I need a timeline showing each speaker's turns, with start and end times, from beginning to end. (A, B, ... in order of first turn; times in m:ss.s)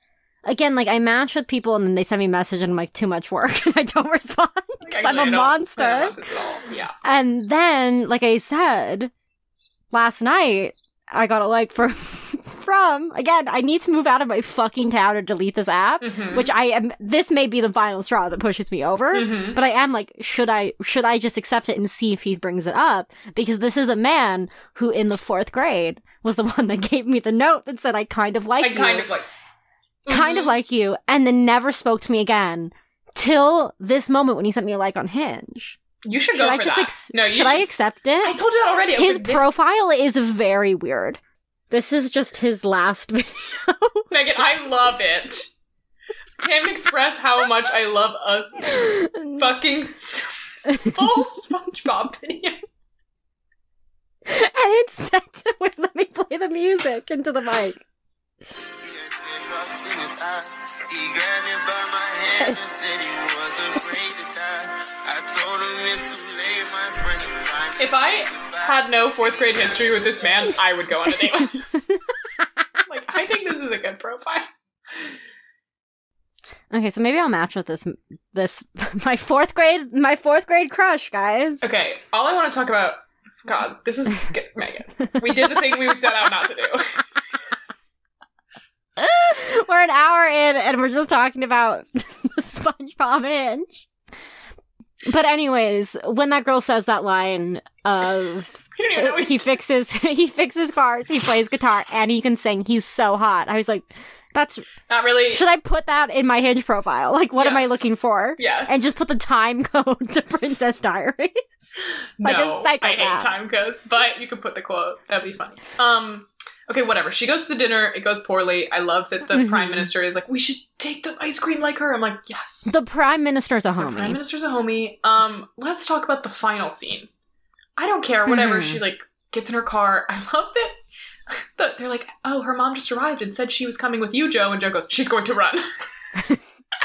0:00.4-0:06.2 A
0:04.8-0:06.9 B
0:07.0-0:09.1 A
0:09.9-0:29.1 A
0:16.0-0:16.5 B
0:19.1-0:19.6 B
0:28.6-0:29.3 B
0:30.0-0:30.6 B
0:30.1-0:35.8 A
0:36.0-0:37.7 B
0:36.3-0:38.4 A
0:38.2-0:39.7 B
0:38.9-0:44.1 A
0:44.1-0:45.5 B
0:46.4-0:52.6 B
0:48.8-0:49.4 A
0:54.2-0:57.8 A
0:58.8-1:08.9 C
1:07.8-1:11.6 B
1:12.9-1:14.5 B
1:16.7-1:21.6 A
1:21.6-1:26.9 B
1:25.2-1:26.0 A
1:29.0-1:33.8 A
1:35.0-1:44.6 A
1:38.7-1:39.5 B
1:44.9-1:45.4 B
1:45.3-1:51.5 A
1:47.4-1:48.9 B
1:52.2-2:02.8 B
1:52.2-1:53.3 A
1:59.3-1:59.9 A
2:02.7-2:04.2 A
2:03.8-2:07.1 B
2:07.8-2:10.8 B
2:08.3-2:08.8 A
2:11.3-2:15.6 B